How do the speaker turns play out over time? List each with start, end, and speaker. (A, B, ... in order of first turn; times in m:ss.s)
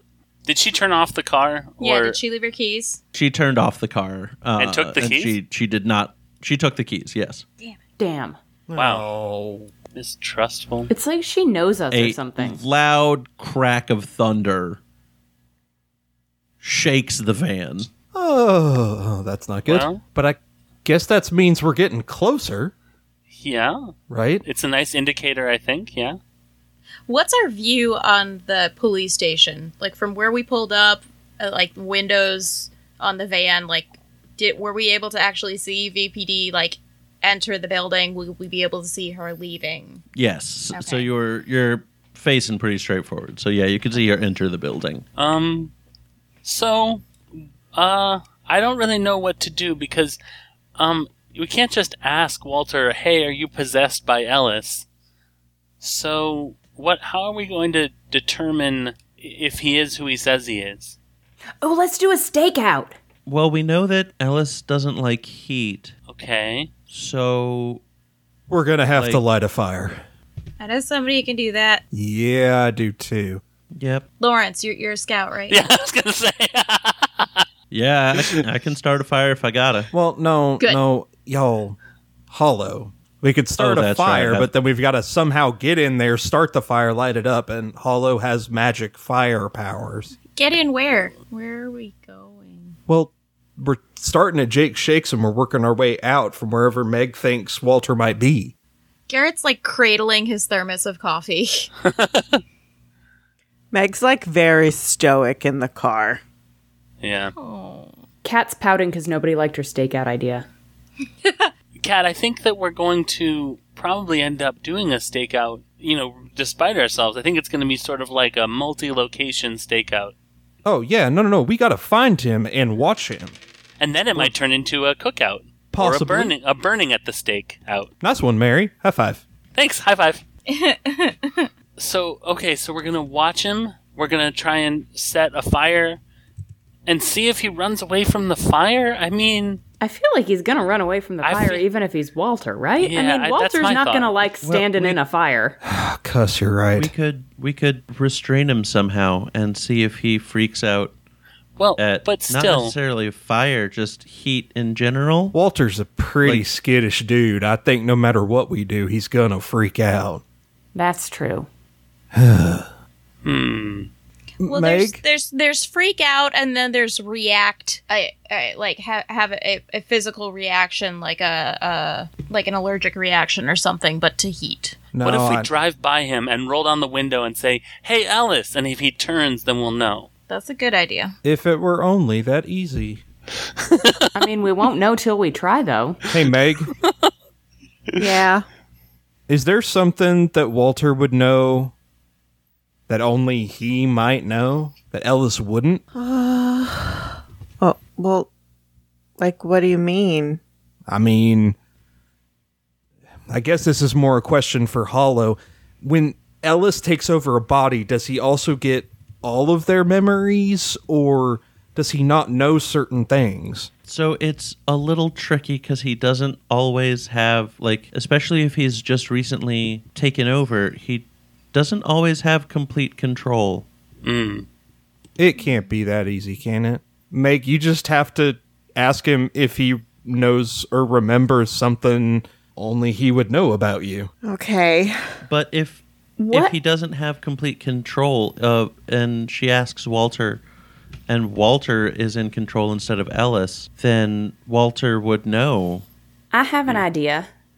0:00.4-0:02.2 A
0:01.8-0:03.0 B
0:03.1-0:07.4 C
0:04.6-0:05.3 A
0:08.0-0:08.4 D
0:08.7-0:09.7 E
0:08.8-0:09.0 A
0:09.9-0:10.9 A
0:10.9-0:12.6 D
0:11.9-0:14.8 C
0:16.6-0:17.9 C
0:18.1-0:22.7 E
0:19.7-0:20.0 A
0:23.3-0:23.9 A
0:24.1-0:24.4 E
0:24.4-0:26.2 A
0:27.1-0:40.0 B
0:40.1-0:45.0 C
0:40.7-0:41.0 B
0:45.2-0:45.7 A
0:46.4-0:50.2 A
0:50.8-0:54.8 A
0:55.8-1:01.0 A
1:01.6-1:03.0 D
1:03.2-1:05.9 C
1:06.1-1:06.7 A
1:06.9-1:07.8 C
1:08.5-1:10.0 E
1:08.9-1:09.2 C
1:10.6-1:11.8 B
1:11.9-1:13.4 E
1:13.7-1:14.0 C
1:14.2-1:15.7 B
1:15.5-1:17.4 A
1:17.7-1:19.9 C
1:18.2-1:18.4 A
1:19.9-1:21.8 E
1:22.3-1:30.1 E
1:23.6-1:24.5 C
1:30.3-1:32.8 B
1:32.9-1:38.5 E
1:39.1-1:41.7 B
1:41.8-1:42.4 A
1:43.7-1:46.2 F
1:47.0-1:47.3 A
1:47.4-1:47.9 B
1:48.2-1:50.4 D
1:51.2-1:51.5 B
1:51.8-2:00.1 A
2:00.6-2:03.4 E
2:03.8-2:07.9 A
2:05.7-2:06.3 E
2:08.0-2:09.2 E
2:09.5-2:10.2 A
2:10.5-2:11.5 B
2:11.8-2:16.0 A
2:16.8-2:19.6 A
2:19.8-2:25.6 D
2:21.2-2:21.6 A
2:22.8-2:24.2 A
2:24.4-2:25.0 C
2:25.6-2:26.9 E
2:26.7-2:30.9 C
2:31.6-2:32.7 A
2:31.8-2:35.4 C
2:35.3-2:40.2 E
2:40.7-2:41.5 D
2:42.1-2:42.7 E
2:43.2-2:43.9 A
2:44.4-2:45.0 E
2:44.4-2:54.9 B
2:54.9-2:55.5 E
2:55.0-3:00.1 A
3:00.3-3:01.1 B
3:01.2-3:03.0 E
3:03.7-3:04.0 A
3:04.1-3:06.0 D
3:06.1-3:06.7 E
3:08.0-3:08.4 F
3:09.3-3:11.7 E
3:12.9-3:15.8 E
3:15.9-3:18.3 F
3:19.2-3:20.4 F
3:20.9-3:21.6 E
3:23.3-3:33.7 E
3:33.8-3:43.6 C
3:44.0-3:44.4 A
3:45.2-3:54.1 E
3:54.2-3:55.2 F
3:55.2-4:00.4 C
3:56.2-3:56.5 D
4:01.1-4:05.8 C
4:06.3-4:07.3 D